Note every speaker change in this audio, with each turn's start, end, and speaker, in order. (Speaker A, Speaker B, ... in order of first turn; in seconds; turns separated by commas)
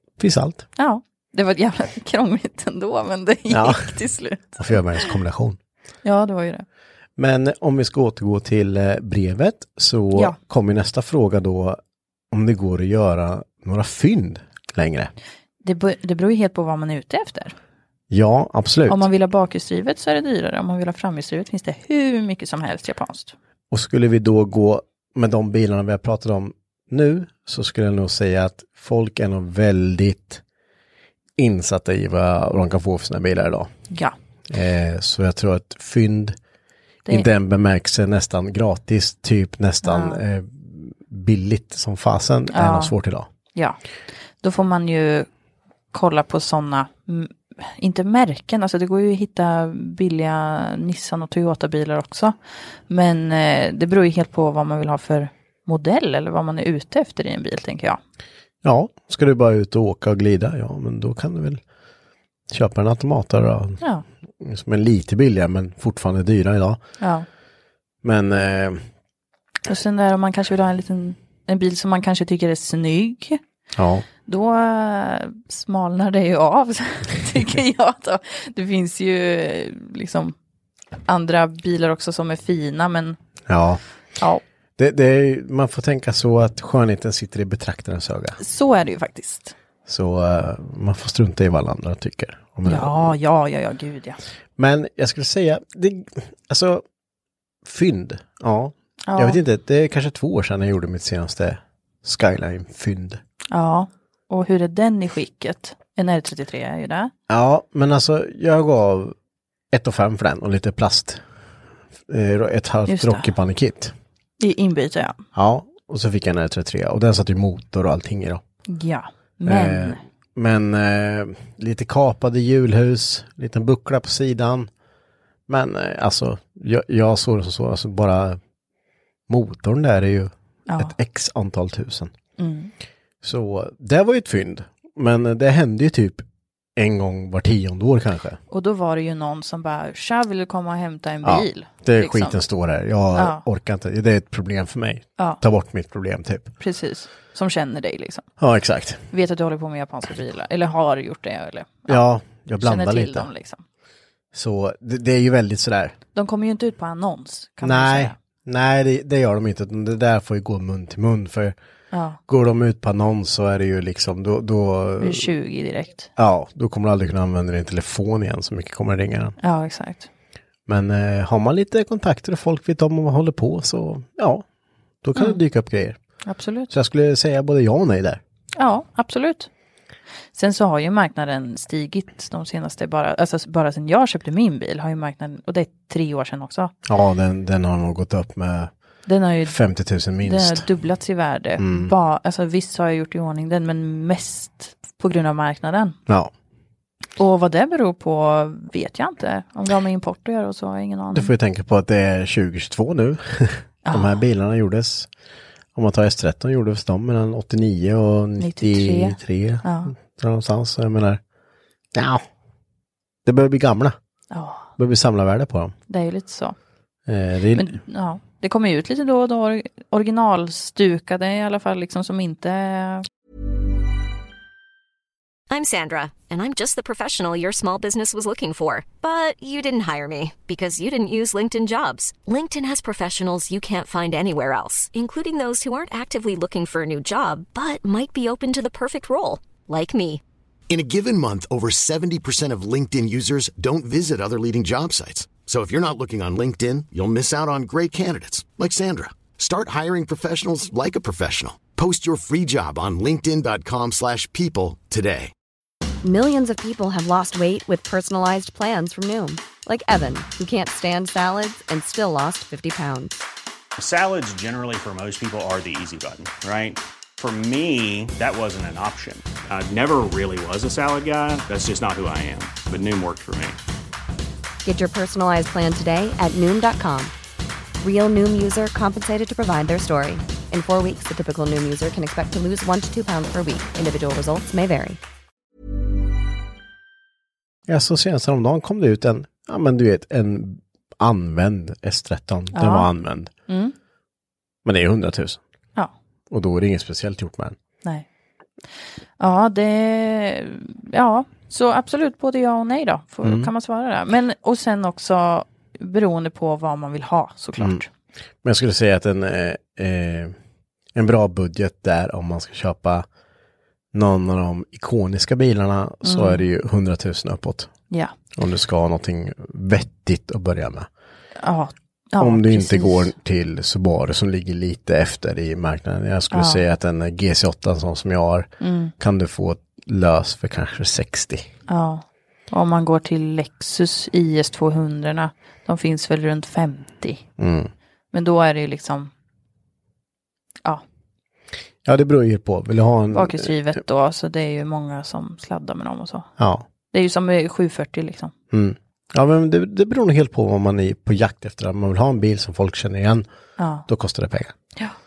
Speaker A: 0.2-0.7, Speaker B: 0.8-5.1, Speaker A: 3.5-4.0, Speaker A: 4.6-5.6, Speaker B: 6.0-6.6, Speaker A: 7.2-11.8, Speaker A: 12.3-15.1, Speaker B: 15.6-17.5, Speaker A: 18.1-19.1, Speaker B: 18.9-23.3, Speaker A: 23.7-30.4, Speaker A: 31.4-33.7, Speaker B: 33.9-34.1, Speaker A: 34.5-36.4, Speaker A: 37.1-43.3, Speaker B: 39.8-40.2, Speaker B: 42.5-42.9, Speaker B: 44.4-45.3, Speaker B: 45.9-52.3, Speaker B: 52.9-58.0, Speaker A: 58.6-61.6, Speaker A: 62.5-63.8, Speaker A: 64.4-66.8, Speaker B: 67.0-67.3, Speaker A: 68.0-68.8, Speaker B: 69.7-73.4, Speaker A: 73.8-74.1, Speaker B: 74.2-80.3, Speaker B: 81.1-83.2, Speaker A: 83.5-83.8, Speaker A: 84.8-88.4, Speaker B: 88.4-89.5, Speaker A: 89.8-93.1, Speaker B: 92.7-94.2, Speaker A: 94.6-96.8, Speaker A: 97.6-103.2, Speaker B: 99.1-99.4, Speaker B: 103.5-107.1, Speaker A: 107.3-109.1, Speaker A: 109.7-111.2, Speaker A: 112.1-113.9, Speaker B: 112.9-113.3, Speaker B: 114.4-115.2, Speaker A: 115.3-118.4, Speaker B: 118.7-120.0, Speaker A: 119.4-124.7, Speaker A: 125.5-128.4, Speaker A: 129.3-132.1, Speaker B: 132.4-132.7, Speaker A: 133.2-136.2, Speaker A: 136.8-138.4, Speaker B: 138.5-142.4, Speaker A: 141.2-146.5, Speaker B: 143.1-143.4, Speaker B: 146.6-148.2, Speaker A: 148.4-149.0, Speaker B: 149.1-152.0, Speaker A: 151.9-153.3, Speaker B: 152.6-153.6, Speaker A: 154.3-155.9, Speaker B: 156.1-158.2, Speaker A: 157.6-161.5, Speaker B: 161.9-162.2, Speaker A: 162.3-165.3, Speaker B: 165.0-166.1, Speaker A: 166.2-169.4, Speaker B: 169.4-170.1, Speaker A: 170.7-174.4, Speaker A: 175.0-176.0, Speaker B: 176.2-176.7, Speaker A: 176.7-178.2, Speaker B: 178.6-179.5, Speaker B: 180.3-186.7, Speaker A: 186.9-188.7, Speaker B: 189.1-189.5, Speaker A: 189.4-190.7, Speaker B: 190.2-196.0, Speaker A: 191.6-191.9, Speaker B: 197.2-201.3, Speaker A: 201.1-205.1, Speaker B: 203.8-204.2, Speaker A: 205.7-211.2, Speaker B: 208.4-209.9, Speaker A: 211.9-212.2, Speaker A: 213.2-213.9, Speaker B: 214.3-214.7, Speaker A: 214.8-215.7, Speaker B: 215.9-216.6, Speaker A: 217.1-217.8, Speaker B: 217.5-223.1, Speaker C: 225.5-240.2, Speaker D: 240.7-255.3, Speaker E: 256.0-263.2, Speaker F: 263.8-273.6, Speaker E: 274.6-277.1, Speaker E: 277.8-285.0, Speaker A: 287.7-293.3, Speaker B: 292.5-292.9, Speaker B: 293.5-293.7, Speaker A: 294.6-295.4, Speaker A: 296.3-297.6, Speaker B: 299.2-307.9, Speaker A: 303.2-303.5, Speaker A: 308.4-310.3, Speaker A: 310.9-313.1, Speaker A: 313.9-317.7, Speaker B: 316.0-316.5, Speaker A: 318.3-320.9, Speaker B: 321.4-323.1, Speaker A: 322.2-331.5, Speaker B: 326.3-326.6, Speaker B: 328.6-328.9, Speaker B: 331.7-337.2, Speaker A: 337.4-337.7, Speaker B: 338.1-339.1, Speaker A: 341.8-343.5, Speaker B: 343.1-346.3, Speaker A: 346.4-346.7, Speaker B: 346.9-348.3, Speaker A: 348.5-353.2, Speaker B: 353.6-353.9, Speaker A: 353.9-354.6